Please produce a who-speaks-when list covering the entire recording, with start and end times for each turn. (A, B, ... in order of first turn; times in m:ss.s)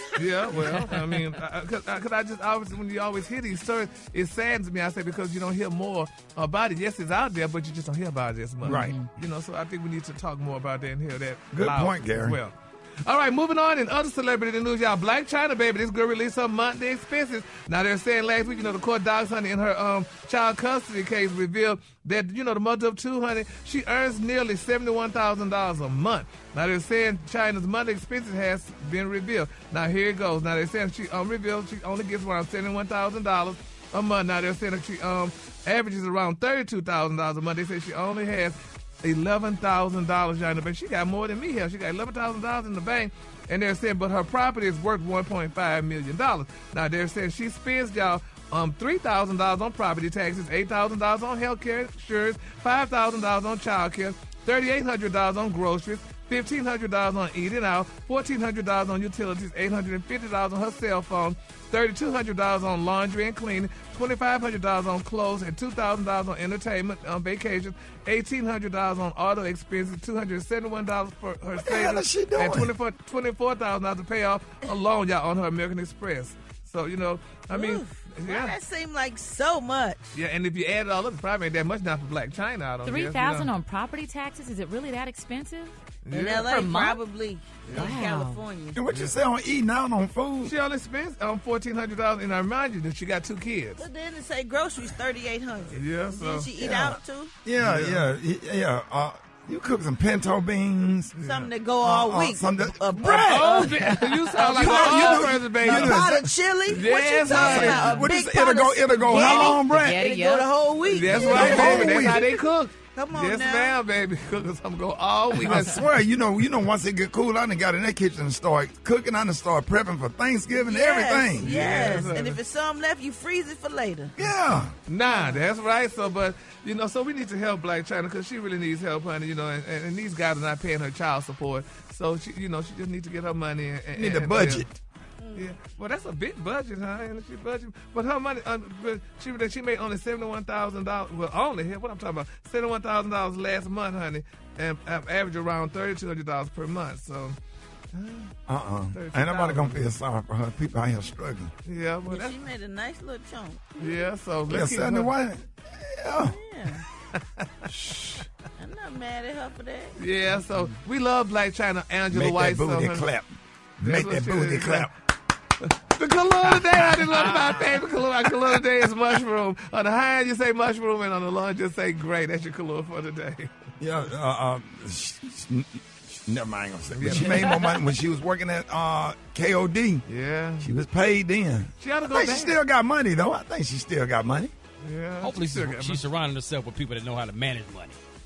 0:00.2-1:18.6 A
0:08.6-0:09.0 B
0:08.6-0:09.1 C
0:11.5-0:12.4 B
1:11.6-1:12.7 B
1:17.5-1:20.1 D
1:20.2-1:23.5 A
1:22.8-1:25.8 C
1:26.0-1:26.5 A
1:26.1-1:28.8 D
1:26.3-1:27.0 C
1:27.7-1:28.4 C
1:28.7-1:30.5 B
1:30.4-1:33.8 A
1:33.8-1:37.3 D
1:35.7-1:36.5 A
1:36.6-1:41.2 B
1:37.5-1:38.1 A
1:41.2-1:53.8 D
1:41.8-1:43.6 B
1:43.0-1:46.1 A
1:44.4-1:46.3 B
1:46.7-1:48.1 A
1:47.3-1:50.0 B
1:49.1-1:50.5 C
1:50.8-1:55.8 A
1:51.1-1:52.3 B
1:55.4-2:02.1 B
2:00.7-2:04.2 D
2:01.4-2:02.4 A
2:04.2-2:04.8 B
2:04.9-2:14.7 A
2:05.0-2:05.4 D
2:14.0-2:14.8 B
2:15.3-2:27.4 A
2:27.9-2:28.4 A
2:28.5-2:31.5 B
2:28.9-2:29.9 A
2:31.6-2:32.4 A
2:32.0-2:34.0 D
2:33.8-2:35.1 A
2:34.5-2:36.4 B
2:36.2-2:36.8 D
2:37.9-2:38.2 A
2:38.6-2:40.0 D
2:40.0-2:43.1 A
2:42.1-2:44.9 B
2:43.8-2:44.9 A
2:45.9-2:53.5 A
2:53.8-3:00.0 B
2:56.9-2:57.8 A
3:00.1-3:00.7 A
3:00.6-3:04.5 B
3:01.8-3:02.6 A
3:04.8-3:06.1 A
3:05.2-3:08.0 E